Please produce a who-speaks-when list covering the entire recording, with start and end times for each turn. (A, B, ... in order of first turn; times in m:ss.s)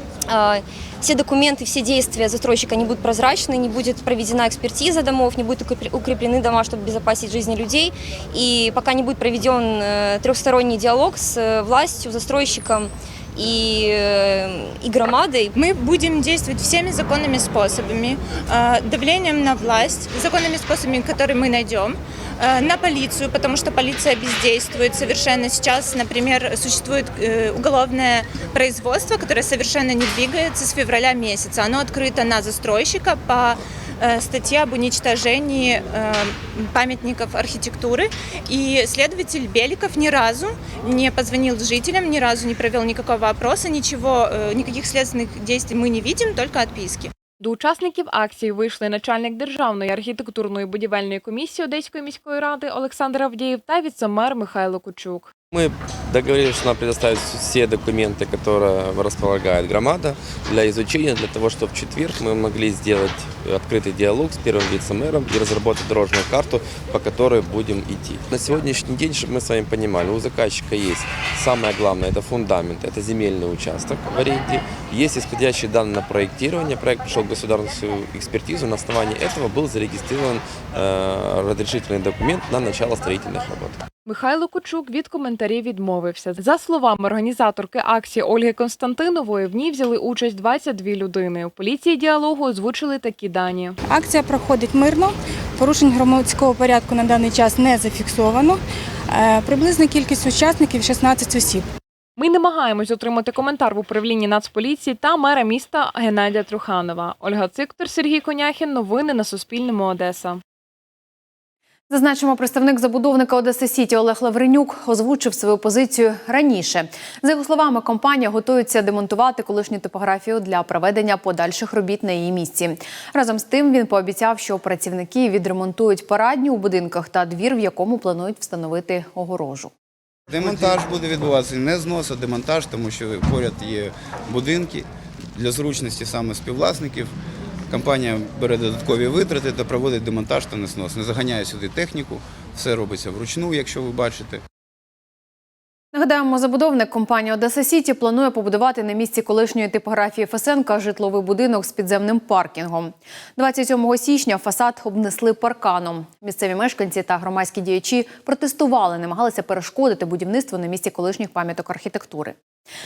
0:00.3-0:15.5 A
0:15.6-0:47.1 B
0:47.4-0:55.3 C
0:55.5-1:23.8 D
1:24.1-1:33.8 C
1:33.8-1:41.6 E
1:42.2-1:50.4 C
1:51.9-2:09.7 F
2:10.3-2:17.1 G
2:17.7-2:24.4 G
2:25.9-2:42.4 F